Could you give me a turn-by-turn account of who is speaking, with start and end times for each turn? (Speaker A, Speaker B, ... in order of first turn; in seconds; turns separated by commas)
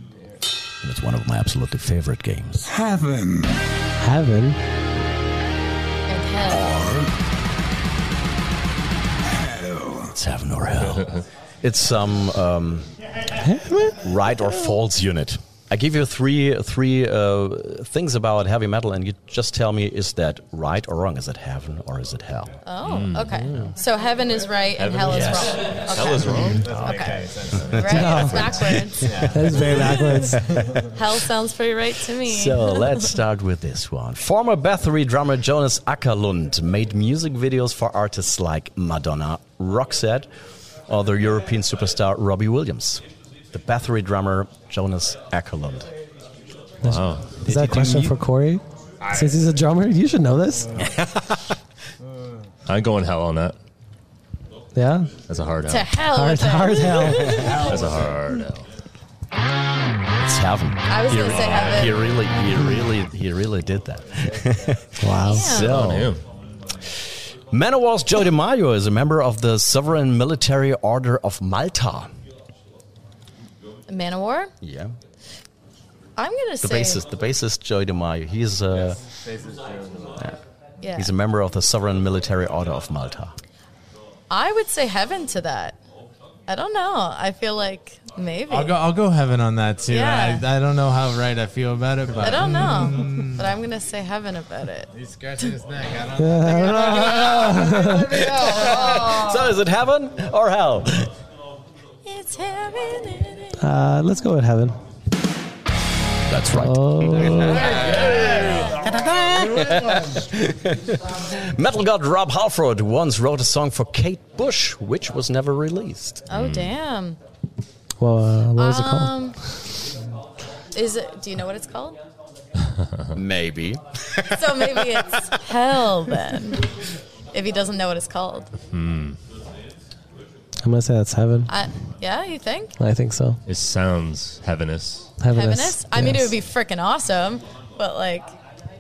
Speaker A: 0.8-2.7, Speaker B: 2.6-3.6, Speaker C: 4.0-4.6, Speaker D: 6.1-6.7, Speaker B: 6.5-7.1, Speaker B: 9.3-10.2, Speaker A: 10.2-12.9, Speaker C: 13.4-14.0, Speaker A: 14.0-22.5, Speaker D: 22.6-33.1, Speaker E: 22.9-23.3, Speaker C: 23.4-23.7, Speaker E: 24.8-27.9, Speaker A: 25.1-25.5, Speaker F: 26.6-28.2, Speaker A: 26.6-27.0, Speaker A: 27.5-29.2, Speaker C: 27.9-30.4, Speaker F: 29.1-29.7, Speaker A: 32.2-40.3, Speaker A: 40.9-45.9, Speaker C: 46.8-50.8, Speaker E: 46.8-47.3, Speaker A: 47.4-48.2, Speaker E: 49.0-49.4, Speaker A: 50.8-51.5, Speaker E: 52.7-53.6, Speaker C: 54.8-55.1, Speaker E: 55.3-55.9, Speaker D: 55.7-57.8, Speaker C: 56.1-57.6, Speaker A: 57.0-57.7, Speaker E: 57.5-58.7, Speaker A: 60.2-66.1, Speaker D: 60.9-62.0, Speaker E: 61.3-61.8, Speaker C: 65.0-65.6, Speaker D: 65.2-65.8, Speaker E: 65.6-66.2, Speaker A: 67.5-72.1, Speaker D: 73.9-74.5, Speaker A: 74.6-74.9, Speaker D: 76.2-77.0, Speaker A: 76.6-79.0, Speaker F: 78.7-80.2, Speaker D: 80.8-81.1, Speaker A: 81.0-83.3, Speaker D: 84.3-85.8, Speaker D: 86.5-88.8, Speaker F: 88.5-93.5, Speaker D: 89.9-90.4, Speaker D: 92.2-94.9, Speaker F: 94.9-99.6, Speaker C: 96.2-98.2, Speaker D: 96.4-97.5, Speaker A: 98.2-101.1, Speaker D: 102.0-103.6, Speaker C: 103.6-104.8, Speaker A: 106.3-116.2, Speaker C: 106.5-107.7, Speaker F: 107.1-110.1, Speaker E: 116.3-116.7, Speaker D: 116.3-117.2, Speaker C: 118.0-119.3, Speaker D: 118.6-119.4, Speaker D: 120.7-122.0, Speaker A: 123.1-124.8, Speaker D: 124.3-126.7, Speaker D: 127.3-128.5, Speaker E: 128.7-129.2, Speaker C: 130.6-131.5, Speaker D: 131.5-132.8, Speaker C: 132.8-133.4, Speaker E: 133.5-135.1, Speaker C: 135.2-136.3, Speaker D: 135.3-138.3